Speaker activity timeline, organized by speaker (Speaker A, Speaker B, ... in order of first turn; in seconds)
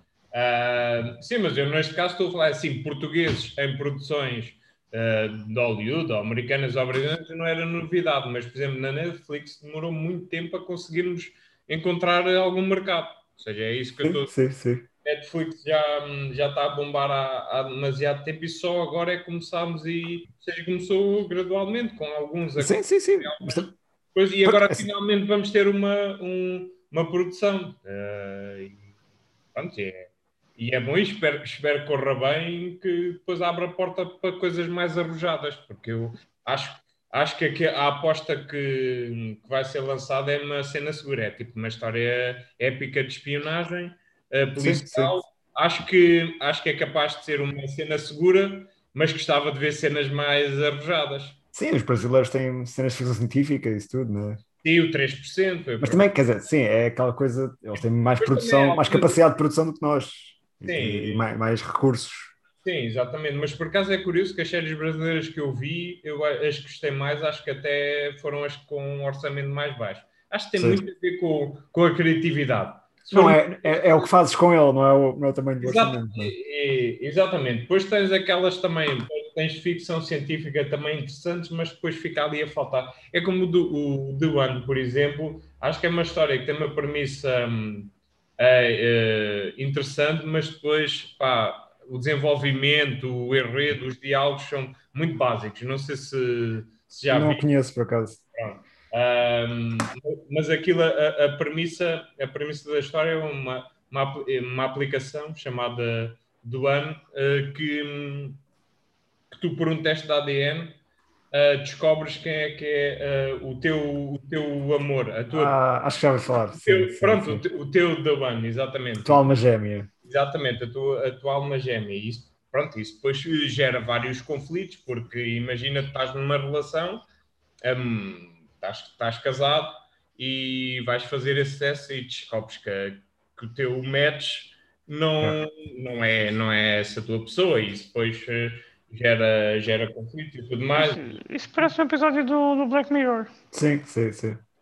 Speaker A: 0.3-14.3, 15.0-28.9, 29.5-51.4, 54.6-56.1, 57.7-59.2, 60.6-61.2, 62.6-74.1, 75.6-97.5, 98.3-108.4, 109.3-110.8, 111.3-115.5, 116.6-119.2, 120.0-127.0, 127.6-141.2
Speaker B: 14.0-14.9, 22.6-23.7, 24.4-24.9, 44.6-45.1, 51.5-54.4, 55.8-62.3, 70.6-70.8, 73.1-76.3, 97.1-98.2, 115.3-117.4, 119.0-119.9, 143.5-144.4
Speaker C: 140.8-143.3